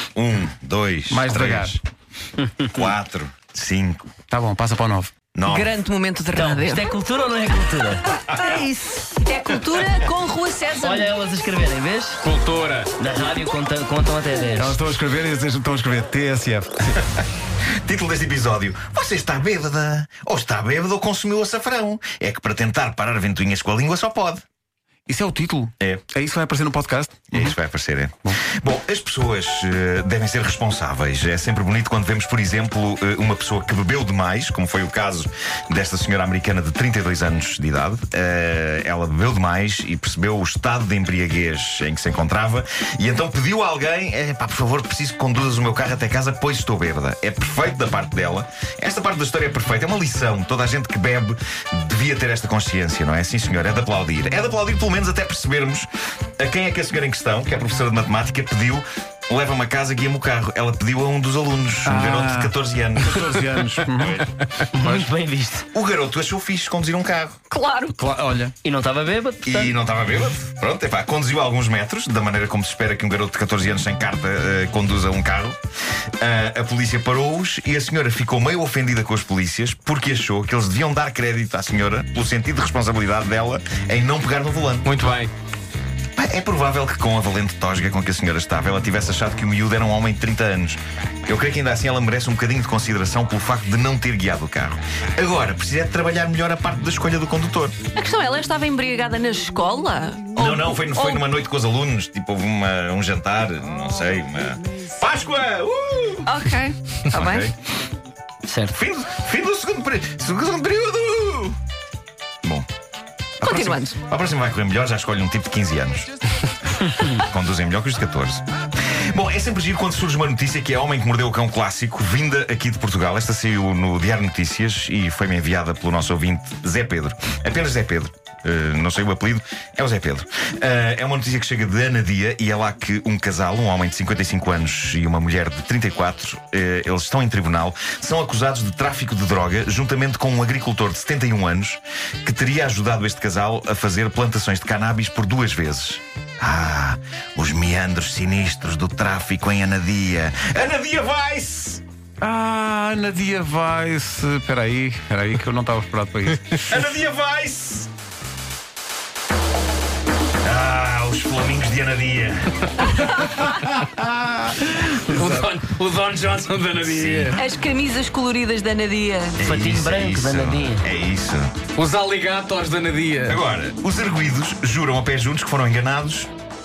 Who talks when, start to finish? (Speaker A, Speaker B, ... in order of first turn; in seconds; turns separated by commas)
Speaker A: 0.2-1.8, Speaker B: 1.1-1.8, Speaker A: 2.7-4.0, Speaker B: 4.3-5.1, Speaker A: 5.3-5.8, Speaker C: 5.5-6.9, Speaker D: 6.3-8.1, Speaker A: 8.3-8.6, Speaker C: 8.4-11.1, Speaker D: 10.8-12.2, Speaker E: 12.2-12.9, Speaker D: 13.0-14.8, Speaker B: 14.6-16.9, Speaker A: 17.8-24.4, Speaker B: 25.1-27.5, Speaker A: 27.3-55.9, Speaker A: 56.4-64.3, Speaker B: 61.9-64.2, Speaker D: 64.7-65.7, Speaker A: 65.7-67.4, Speaker C: 67.5-68.0, Speaker B: 68.0-68.5, Speaker D: 68.6-69.7, Speaker A: 69.4-75.6, Speaker A: 76.2-85.0, Speaker E: 84.8-85.3, Speaker A: 86.2-97.8, Speaker C: 98.0-101.2, Speaker A: 100.4-106.4, Speaker C: 106.3-107.5, Speaker A: 107.1-107.6, Speaker D: 108.5-108.8, Speaker A: 108.7-111.6, Speaker C: 113.4-114.0, Speaker A: 113.4-116.1, Speaker A: 117.0-151.8, Speaker B: 152.2-156.7, Speaker A: 156.7-157.9, Speaker A: 160.4-163.0, Speaker B: 163.2-164.5, Speaker E: 164.5-167.4, Speaker A: 166.8-167.4, Speaker C: 167.4-169.4, Speaker A: 169.4-171.6, Speaker D: 169.4-170.8, Speaker E: 171.8-173.4, Speaker A: 173.3-176.3